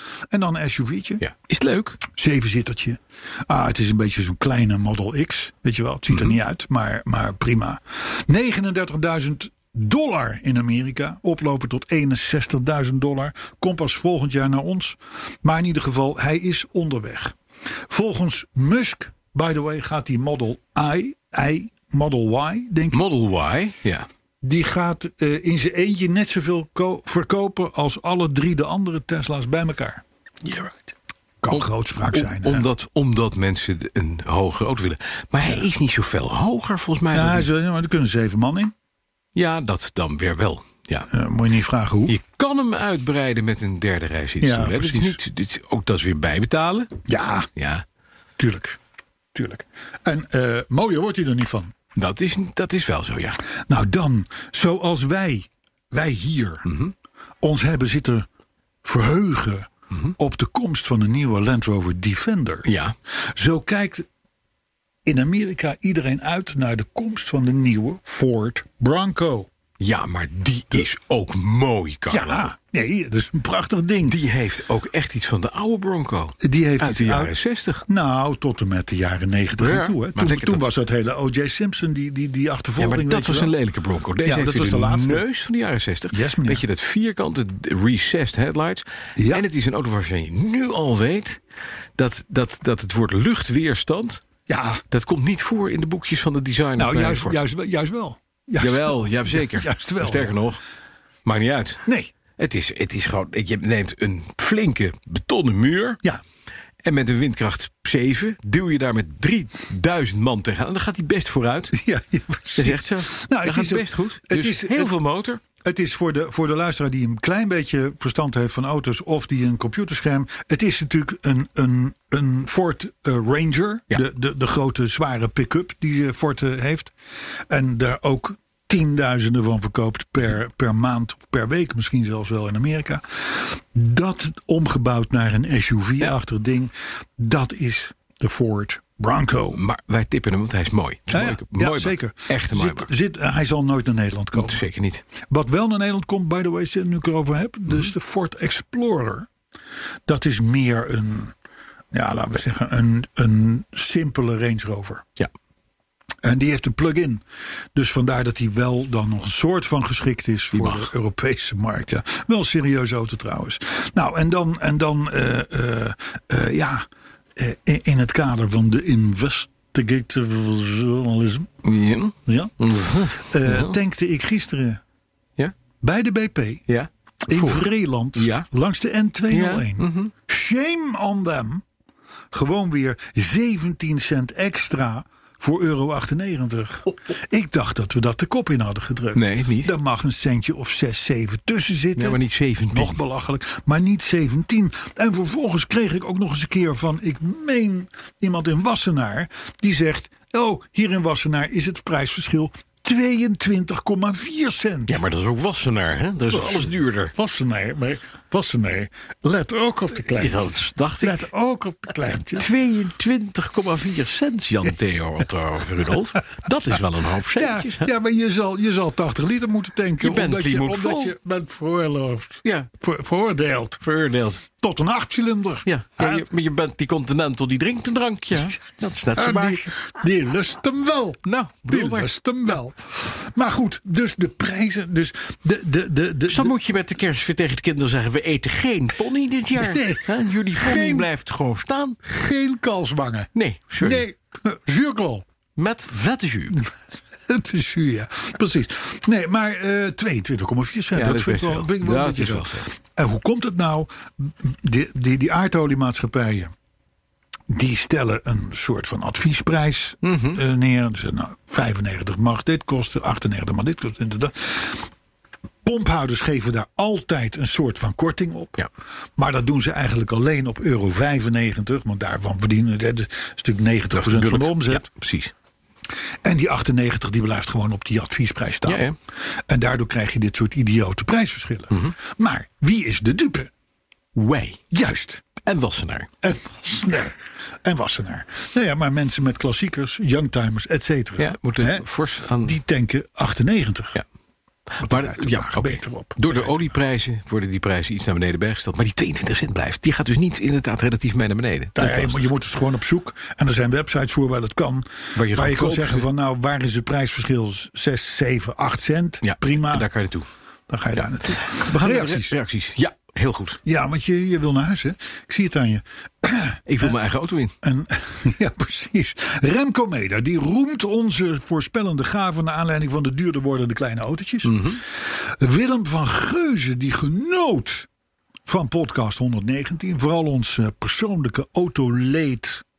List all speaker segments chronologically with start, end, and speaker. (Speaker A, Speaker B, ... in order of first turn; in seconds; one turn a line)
Speaker A: 0.3-1.2
Speaker B: 1.2-2.0
Speaker A: 2.1-17.4
Speaker B: 6.1-6.4
Speaker A: 17.9-23.0
Speaker B: 22.9-24.1
Speaker A: 24.4-30.0
Speaker B: 30.5-30.7
Speaker A: 31.4-32.7
Speaker B: 31.5-37.5
Speaker A: 37.1-38.7
Speaker B: 39.3-41.1
Speaker A: 41.1-42.1
Speaker B: 42.1-46.9
Speaker A: 44.4-45.2
Speaker A: 47.1-47.5
Speaker B: 47.5-47.8
Speaker A: 48.4-48.8
Speaker A: 49.3-51.7
Speaker B: 52.0-53.4
Speaker A: 53.6-56.6
Speaker B: 56.6-56.9
Speaker A: 57.4-58.3
Speaker A: 58.8-64.1
Speaker B: 62.6-62.9
Speaker A: 65.0-69.5
Speaker B: 69.8-72.5
Speaker A: 72.1-74.2
Speaker B: 74.1-77.8
Speaker A: 76.4-77.3
Speaker A: 77.9-83.5
Speaker B: 79.6-80.6
Speaker B: 82.8-91.4
Speaker A: 84.2-85.2
Speaker A: 86.1-86.6
Speaker A: 89.2-89.4
Speaker B: 92.0-94.2
Speaker A: 94.5-94.8
Speaker B: 94.9-97.4
Speaker A: 96.8-100.4
Speaker B: 98.6-100.6
Speaker B: 101.2-101.8
Speaker A: 101.8-102.1
Speaker B: 102.4-106.0
Speaker B: 106.8-111.8
Speaker A: 111.7-115.0
Speaker B: 112.5-115.4
Speaker A: 115.6-126.9
Speaker A: 127.5-139.6
Speaker B: 139.5-142.9
Speaker A: 141.1-144.6
Speaker B: 144.3-145.0
Speaker A: 145.2-149.3
Speaker A: 150.1-151.3
Speaker A: 151.9-155.1
Speaker A: 156.2-157.2
Speaker A: 157.7-171.5
Speaker B: 160.5-160.9
Speaker B: 171.6-173.8
Speaker A: 172.2-174.8
Speaker A: 175.8-176.6
Speaker B: 176.7-177.6
Speaker A: 177.3-181.6
Speaker B: 178.2-178.5
Speaker B: 179.3-180.1
Speaker A: 182.3-205.0
Speaker B: 189.1-189.7
Speaker B: 191.9-193.0
Speaker B: 204.9-207.1
Speaker A: 206.3-210.5
Speaker B: 210.1-211.2
Speaker A: 211.0-212.5
Speaker B: 212.4-217.9
Speaker A: 217.3-223.8
Speaker B: 220.0-221.1
Speaker B: 222.4-222.7
Speaker B: 223.8-224.4
Speaker A: 224.4-226.2
Speaker B: 225.7-229.6
Speaker A: 229.1-236.5
Speaker B: 231.2-232.1
Speaker B: 236.3-242.0
Speaker A: 239.6-241.1
Speaker A: 242.0-245.2
Speaker B: 243.3-244.0
Speaker B: 245.6-246.6
Speaker A: 246.5-256.5
Speaker B: 250.9-252.7
Speaker A: 257.5-264.9
Speaker B: 260.0-260.4
Speaker A: 265.6-268.6
Speaker A: 269.2-274.9
Speaker B: 273.9-275.3
Speaker A: 276.2-278.9
Speaker B: 278.6-278.9
Speaker A: 279.5-283.5
Speaker B: 284.1-284.6
Speaker A: 284.7-285.2
Speaker B: 285.4-286.1
Speaker A: 286.2-294.0
Speaker B: 291.2-292.6
Speaker B: 294.7-302.3
Speaker A: 294.8-296.7
Speaker A: 301.8-309.9
Speaker B: 305.1-306.1
Speaker B: 309.2-310.3
Speaker A: 310.7-312.3
Speaker B: 311.3-313.6
Speaker A: 313.6-316.9
Speaker B: 316.7-317.5
Speaker A: 317.6-327.9
Speaker B: 324.4-324.8
Speaker A: 328.4-332.6